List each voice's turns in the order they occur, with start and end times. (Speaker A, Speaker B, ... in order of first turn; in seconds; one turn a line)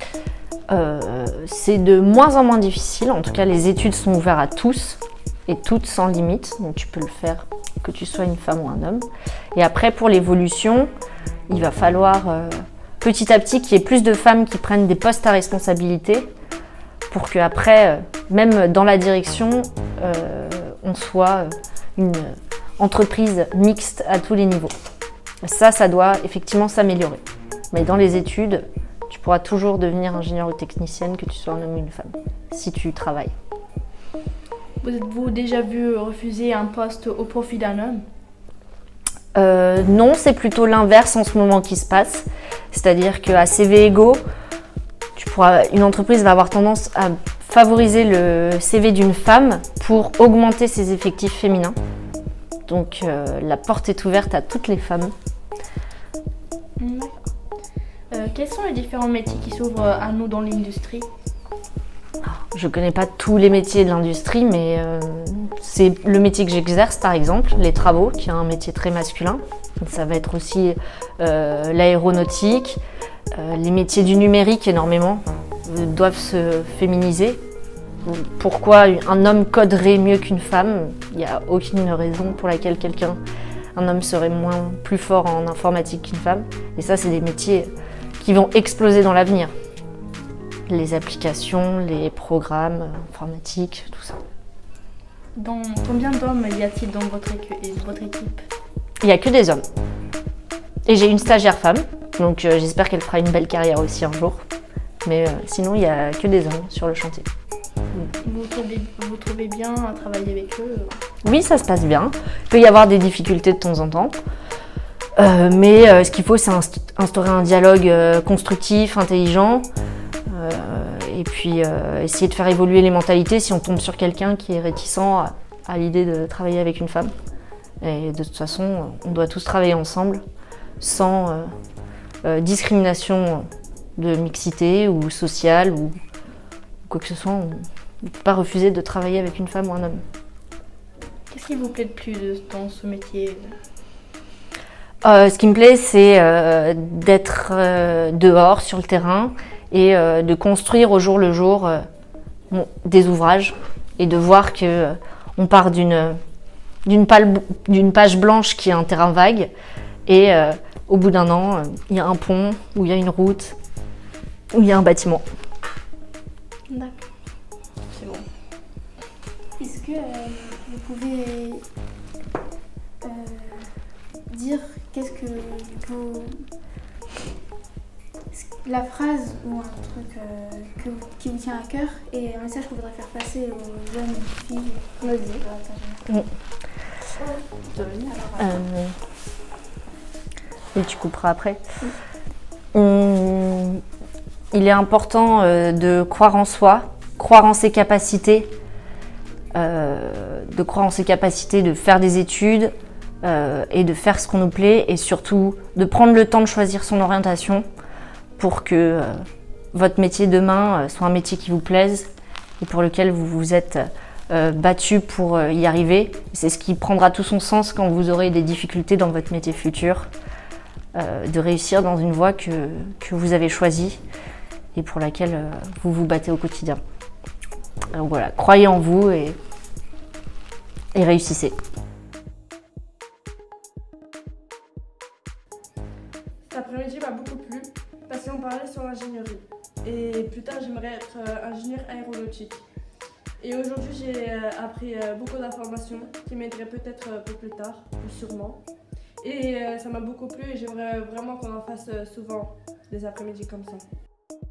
Speaker A: 0.7-10.9
Speaker A: 11.5-16.3
Speaker A: 17.1-24.7
Speaker A: 25.4-33.3
Speaker B: 34.8-38.0
Speaker A: 39.3-44.2
Speaker A: 45.1-51.8
Speaker A: 52.7-55.1
Speaker B: 56.8-57.3
Speaker B: 58.1-61.1
Speaker A: 62.2-72.8
Speaker A: 73.3-77.4
Speaker A: 78.0-83.2
Speaker A: 83.7-89.5
Speaker A: 90.7-94.2
Speaker B: 95.3-98.4
Speaker A: 99.0-99.7
Speaker A: 100.8-104.4
Speaker A: 105.0-107.2
Speaker B: 108.2-111.0
Speaker A: 111.2-114.2
Speaker A: 115.2-119.7
Speaker A: 120.3-127.1
Speaker A: 127.8-130.2
Speaker A: 130.8-131.5
Speaker A: 132.2-135.9
Speaker A: 136.9-140.0
Speaker B: 141.3-143.6
Speaker A: 145.0-151.8
Speaker A: 152.5-156.2
Speaker A: 156.8-159.5
Speaker A: 160.1-163.6
Speaker A: 164.5-165.2
Speaker B: 166.7-167.0
Speaker B: 167.9-168.2
Speaker C: 169.6-171.6
Speaker C: 173.0-173.7
Speaker C: 174.3-176.5
Speaker C: 178.3-186.1
Speaker C: 187.8-188.6
Speaker A: 188.3-188.9
Speaker A: 190.7-191.6
Speaker A: 192.7-193.8
Speaker A: 194.5-198.5
Speaker A: 199.5-207.6
Speaker A: 208.4-220.1
Speaker A: 220.9-224.0
Speaker A: 224.7-226.8
Speaker A: 227.9-229.4
Speaker A: 230.9-231.5
Speaker D: 236.5-242.6
Speaker D: 243.4-248.6
Speaker D: 249.2-253.8